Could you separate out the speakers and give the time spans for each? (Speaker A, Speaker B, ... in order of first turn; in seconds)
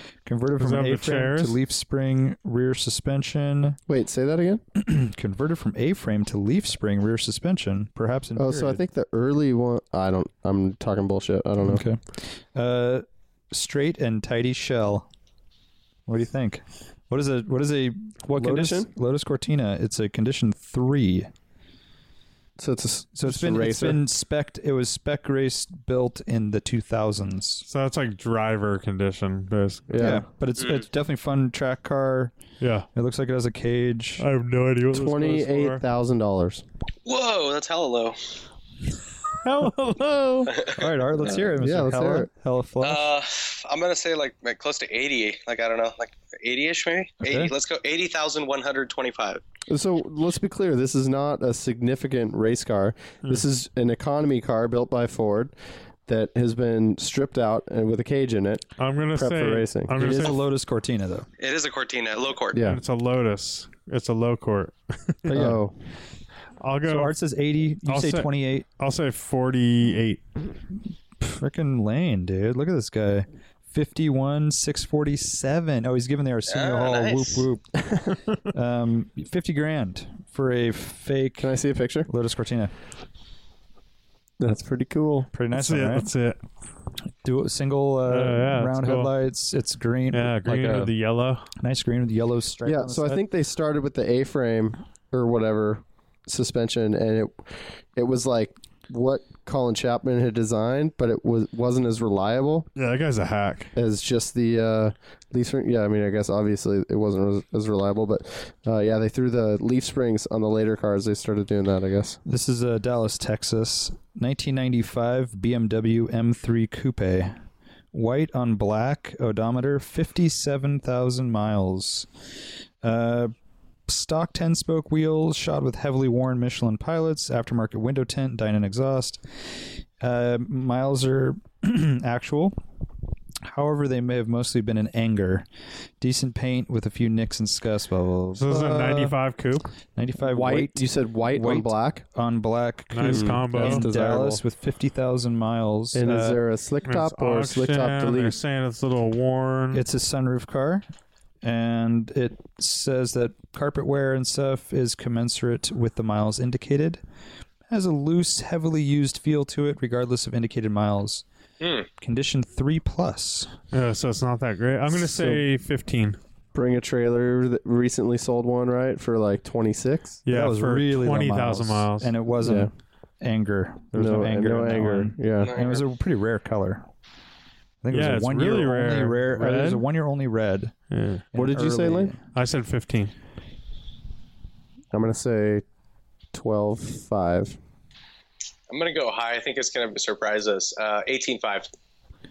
Speaker A: 0.2-3.8, 4.7-8.8, 11.6-15.1, 16.1-21.3, 23.2-27.6, 30.0-32.3, 32.9-34.2, 40.6-43.1, 47.2-47.5, 60.0-61.3, 65.3-65.6, 66.8-68.7, 71.2-77.8, 78.5-81.5, 82.1-82.7, 85.3-86.1, 87.2-90.9, 91.6-93.2, 112.2-117.3, 117.9-122.1, 122.8-123.3, 123.9-129.2, 130.0-132.6, 133.4-135.5, 136.0-139.2, 139.9-146.4, 149.7-150.8, 151.4-157.0, 157.7-161.2, 162.0-163.5, 170.3-176.8, 177.8-180.7, 181.3-182.2
Speaker B: 0.6-1.6, 27.7-30.1, 32.6-32.9, 34.2-35.8, 39.4-40.7, 58.8-60.4, 62.6-65.5, 66.6-67.1, 67.8-70.2, 85.5-86.4, 88.1-89.1, 90.1-91.5, 102.8-103.7, 138.3-139.7, 142.9-143.9, 146.8-149.8, 163.7-166.2, 170.2-172.1, 177.9-179.8, 180.9-181.2, 182.3-183.1
Speaker C: 3.9-4.6, 8.3-11.8, 18.3-18.9, 22.6-24.0, 29.9-30.2, 34.9-36.6, 41.2-42.3, 49.7-55.5, 56.1-59.9, 62.5-62.8, 65.3-65.7, 81.4-82.1, 84.4-85.3, 92.6-102.7, 103.8-112.2, 140.2-142.0, 143.0-144.4, 145.9-148.3, 164.9-165.4, 166.5-170.2, 172.4-172.7, 173.9-175.5, 181.3-182.1, 184.9-185.6, 186.3-187.6
Speaker D: 30.6-30.8, 37.0-38.2, 40.5-40.8, 42.8-49.4, 61.4-62.6, 76.5-77.5, 161.6-161.9, 175.4-175.8, 188.7-191.7